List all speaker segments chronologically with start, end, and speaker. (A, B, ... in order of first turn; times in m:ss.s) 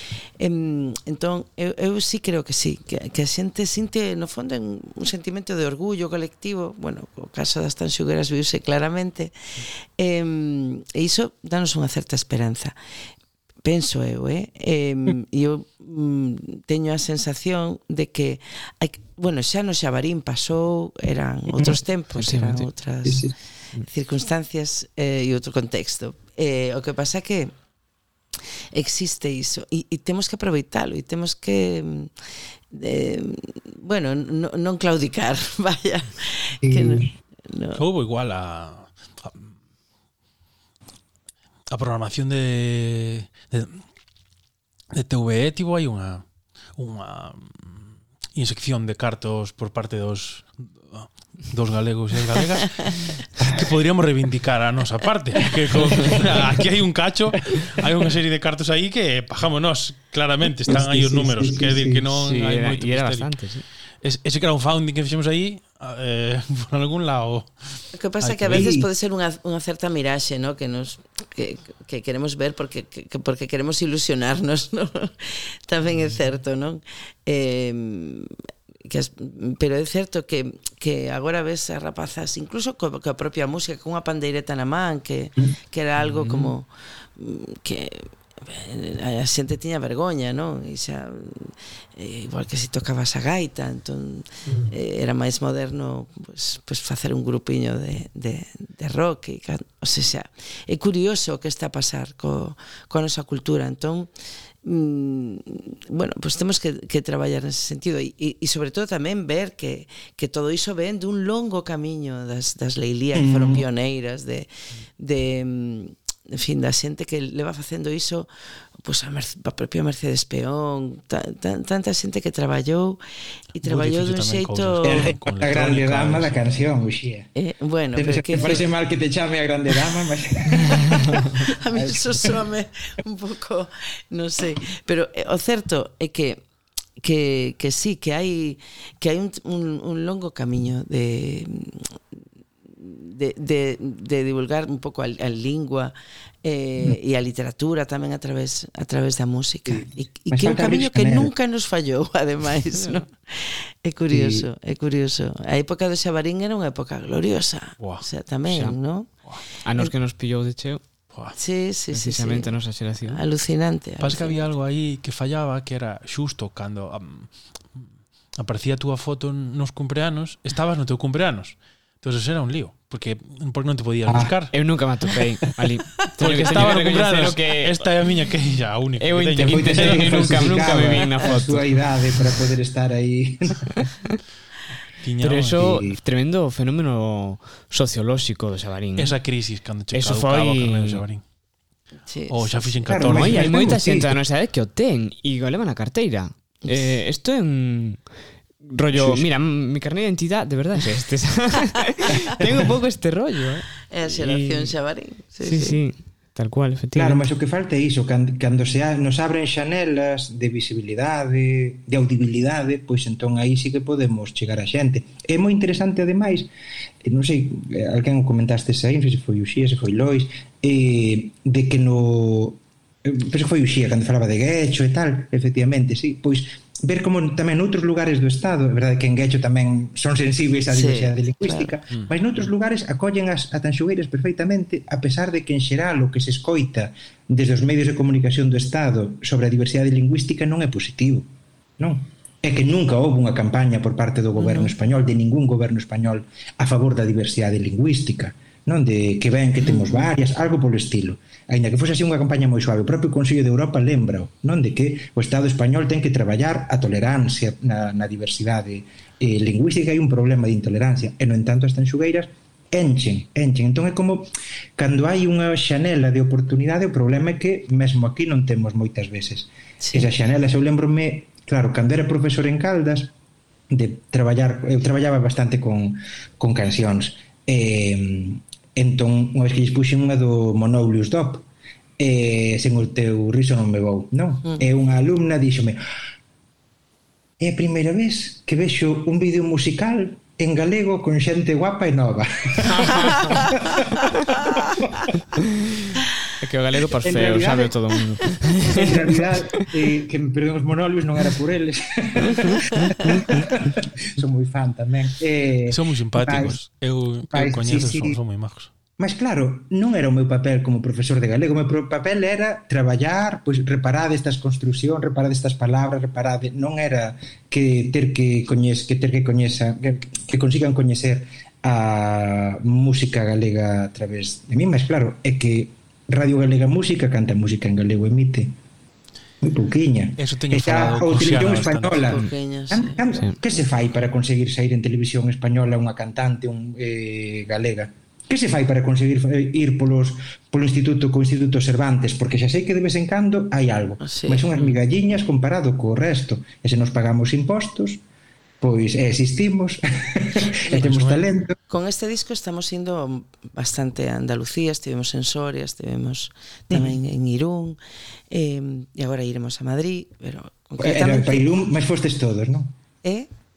0:00.4-0:12.8 A
0:13.6-0:27.5 A
0:21.5-0:21.8 B
0:22.2-0:22.7 C
0:23.0-0:23.3 B
0:28.7-0:32.1 A
0:32.7-0:37.8 A
0:36.6-0:37.1 B
0:37.8-0:39.5 D
0:41.7-0:43.8 D
0:44.9-0:46.2 D
0:46.8-1:03.4 D
1:00.7-1:02.0 B
1:02.1-1:03.6 C
1:04.0-1:08.7 D
1:08.0-1:18.3 A
1:08.5-1:08.9 B
1:18.8-1:44.1 A
1:26.2-1:26.5 C
1:44.6-1:58.3 A
1:53.1-1:53.7 B
1:58.8-2:03.0 A
2:03.5-2:05.1 A
2:03.6-2:06.4 D
2:04.8-2:07.3 B
2:07.4-2:08.7 A
2:07.9-2:12.3 B
2:10.6-2:16.4 A
2:17.0-2:22.2 A
2:22.7-2:39.1 A
2:29.7-2:31.3 B
2:34.1-2:34.5 B
2:37.8-2:38.0 D
2:38.5-2:38.8 C
2:39.6-2:40.8 C
2:41.1-2:41.4 D
2:41.4-2:42.5 A
2:41.9-2:43.2 C
2:43.1-2:44.4 A
2:44.0-2:54.6 D
2:54.1-2:54.3 B
2:54.5-2:57.9 C
2:56.2-3:00.8 D
2:59.0-3:01.8 C
2:59.4-3:03.7 B
3:05.0-3:05.8 D
3:05.2-3:09.2 C
3:05.6-3:06.0 B
3:09.0-3:11.2 D
3:09.9-3:11.0 C
3:12.1-3:13.0 A
3:12.3-3:13.6 D
3:12.8-3:14.2 B
3:13.0-3:18.0 C
3:18.6-3:24.7 C
3:18.9-3:19.3 B
3:23.9-3:25.8 A
3:25.4-3:27.2 C
3:26.9-3:36.5 B
3:37.0-4:33.1 B
3:50.7-3:51.7 A
4:04.4-4:04.7 A
4:09.7-4:10.1 A
4:29.8-4:30.1 A
4:33.7-4:41.5 B
4:42.0-4:45.8 B
4:47.4-4:53.8 B
4:52.7-4:53.1 C
4:56.4-4:59.0 C
4:57.0-4:57.7 B
4:58.7-5:06.6 B
5:05.7-5:08.7 D
5:07.3-5:08.2 B
5:09.0-5:28.5 B
5:29.4-5:48.0 B
5:30.2-5:32.0 D
5:32.0-5:33.0 A
5:44.0-5:44.8 A
5:48.6-5:51.6 B
5:50.7-5:51.3 D
5:51.7-5:57.8 A
5:56.7-5:57.0 B
5:58.3-6:01.4 A
6:00.8-6:02.8 B
6:03.0-6:03.3 A